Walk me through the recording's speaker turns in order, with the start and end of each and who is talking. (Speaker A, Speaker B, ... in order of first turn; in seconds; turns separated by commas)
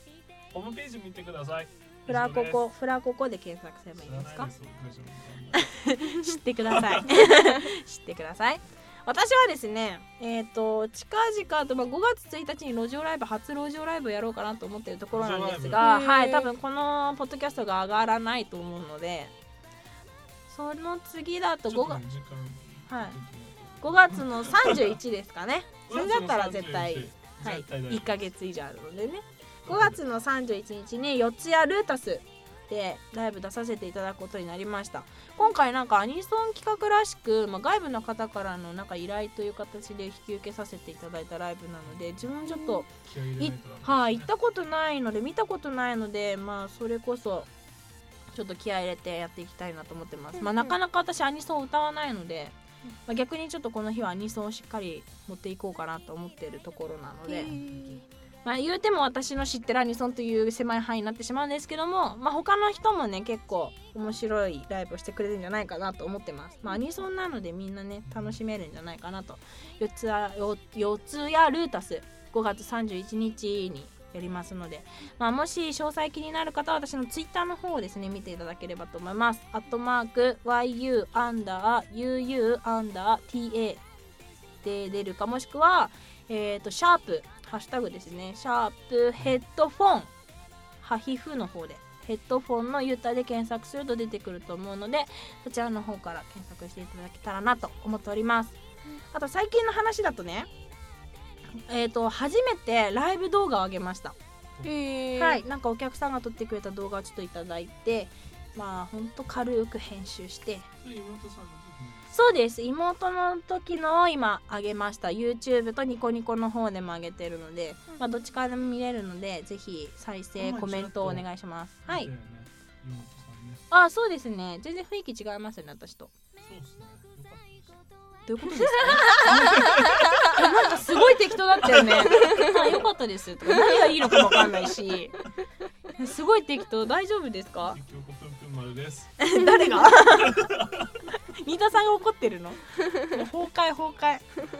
Speaker A: 0.5-2.7, Speaker B: 2.1-4.5, Speaker A: 4.0-5.7, Speaker B: 5.5-19.3, Speaker A: 6.6-7.3, Speaker A: 15.1-15.8, Speaker C: 15.8-16.5, Speaker B: 20.5-22.0, Speaker A: 21.7-25.0, Speaker B: 22.9-23.2, Speaker B: 23.8-47.5, Speaker A: 25.9-28.2, Speaker A: 29.6-30.0, Speaker A: 41.8-42.3, Speaker A: 43.0-44.3, Speaker B: 48.3-52.5, Speaker C: 50.4-50.7, Speaker B: 53.1-57.5, Speaker C: 57.3-58.0, Speaker A: 57.6-58.0, Speaker B: 58.4-83.8, Speaker A: 68.1-68.4, Speaker B: 84.6-90.1, Speaker B: 90.8-98.6, Speaker B: 99.1-100.5, Speaker B: 101.5-104.2, Speaker C: 104.6-105.4, Speaker B: 105.2-110.7, Speaker A: 110.8-112.1, Speaker B: 112.1-122.1, Speaker A: 120.4-121.3, Speaker A: 121.8-123.6, Speaker B: 123.7-126.1, Speaker A: 126.4-127.8, Speaker B: 128.3-129.8, Speaker A: 128.6-131.0, Speaker B: 130.3-135.2, Speaker A: 131.6-132.3, Speaker A: 134.0-134.7, Speaker B: 136.0-137.8, Speaker A: 137.6-139.2, Speaker B: 139.2-140.4, Speaker C: 139.4-139.8, Speaker A: 139.9-141.1, Speaker B: 141.3-144.2